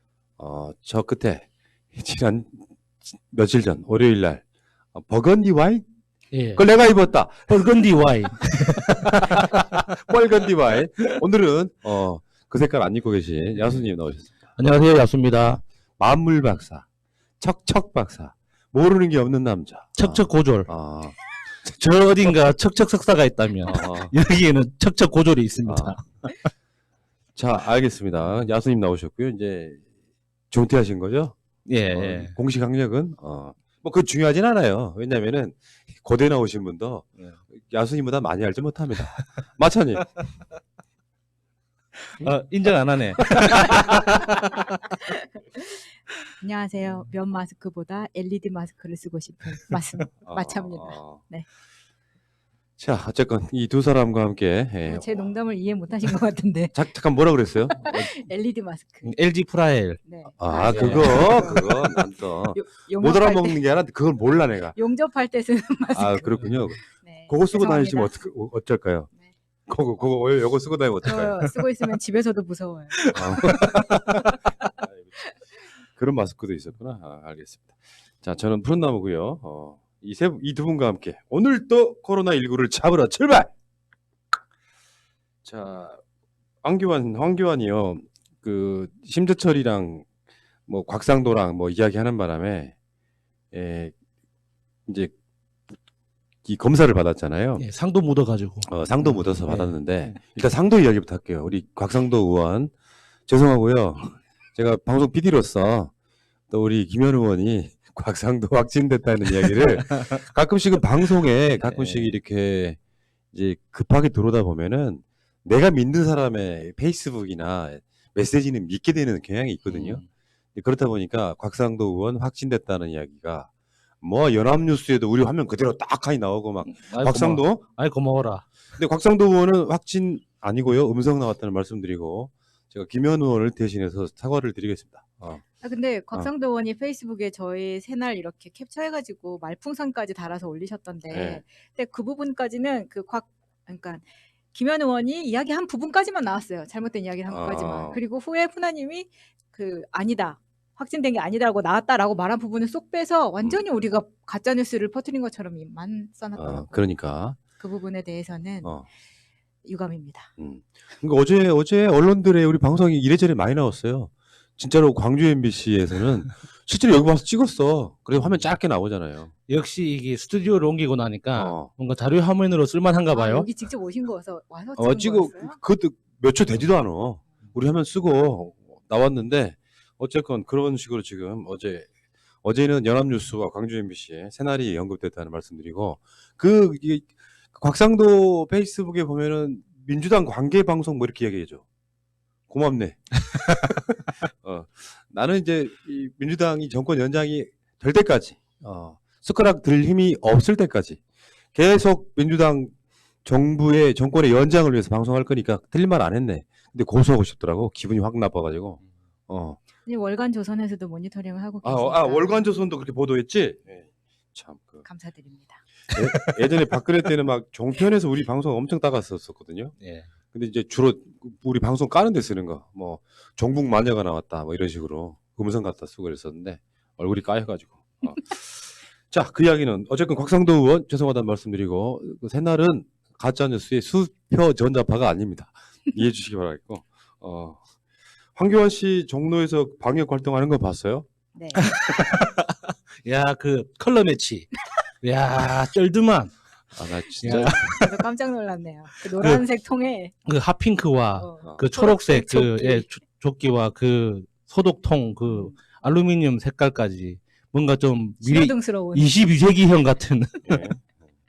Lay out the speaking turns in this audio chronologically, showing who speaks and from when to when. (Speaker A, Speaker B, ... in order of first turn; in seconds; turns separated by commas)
Speaker A: 0.4-4.4, Speaker A: 4.9-5.8, Speaker B: 6.3-6.7, Speaker A: 6.6-7.8, Speaker B: 7.5-9.8, Speaker A: 8.9-14.5, Speaker B: 14.6-15.6, Speaker A: 15.5-16.9, Speaker A: 17.4-21.2, Speaker B: 19.9-20.7, Speaker B: 21.6-26.5, Speaker A: 23.7-24.1, Speaker A: 25.6-26.0, Speaker A: 27.4-29.8, Speaker B: 28.2-28.5, Speaker A: 30.5-31.4, Speaker B: 31.7-32.4, Speaker A: 31.9-40.1, Speaker B: 42.0-44.7, Speaker C: 45.0-51.5, Speaker A: 50.2-51.2, Speaker A: 52.8-55.3, Speaker C: 54.9-56.8, Speaker A: 56.7-58.1, Speaker C: 57.8-59.1, Speaker B: 59.0-61.5, Speaker C: 60.0-63.6, Speaker A: 60.4-64.8, Speaker C: 64.7-68.2, Speaker A: 65.9-69.1, Speaker A: 69.7-71.4, Speaker C: 71.0-73.0, Speaker B: 73.1-74.2, Speaker A: 73.1-75.3, Speaker A: 75.9-83.5, Speaker A: 85.5-86.0, Speaker A: 86.6-90.1, Speaker A: 90.7-92.8, Speaker A: 93.5-94.0, Speaker A: 94.9-95.1, Speaker A: 96.5-97.6, Speaker B: 97.6-100.2, Speaker A: 98.6-102.7, Speaker A: 103.3-105.9, Speaker A: 106.5-112.8, Speaker B: 111.6-112.1, Speaker A: 113.3-120.0, Speaker B: 119.7-120.1, Speaker A: 120.5-123.5, Speaker A: 124.0-127.6, Speaker B: 126.7-128.5, Speaker A: 128.8-135.4, Speaker C: 135.6-156.8, Speaker A: 141.1-141.4, Speaker A: 147.3-148.0, Speaker A: 156.4-157.4, Speaker C: 157.6-158.7, Speaker C: 159.7-160.3, Speaker A: 160.4-169.3, Speaker B: 169.5-173.5, Speaker A: 171.3-171.7, Speaker C: 173.1-175.6, Speaker A: 174.8-181.9, Speaker A: 182.4-191.6, Speaker A: 192.5-193.2, Speaker A: 194.2-201.0, Speaker A: 201.5-202.7, Speaker A: 203.2-209.6, Speaker C: 209.9-212.5, Speaker A: 211.6-214.8, Speaker C: 214.8-215.6, Speaker A: 215.9-219.8, Speaker B: 219.8-220.1, Speaker A: 220.3-237.6, Speaker A: 238.3-241.1, Speaker C: 241.3-241.8, Speaker B: 241.6-244.5, Speaker B: 245.0-246.4, Speaker A: 246.8-247.7, Speaker B: 247.2-248.0, Speaker C: 247.3-250.2, Speaker B: 249.0-249.4, Speaker B: 250.2-260.7, Speaker C: 251.2-252.9, Speaker C: 255.3-255.6, Speaker C: 258.2-259.1, Speaker A: 260.5-260.9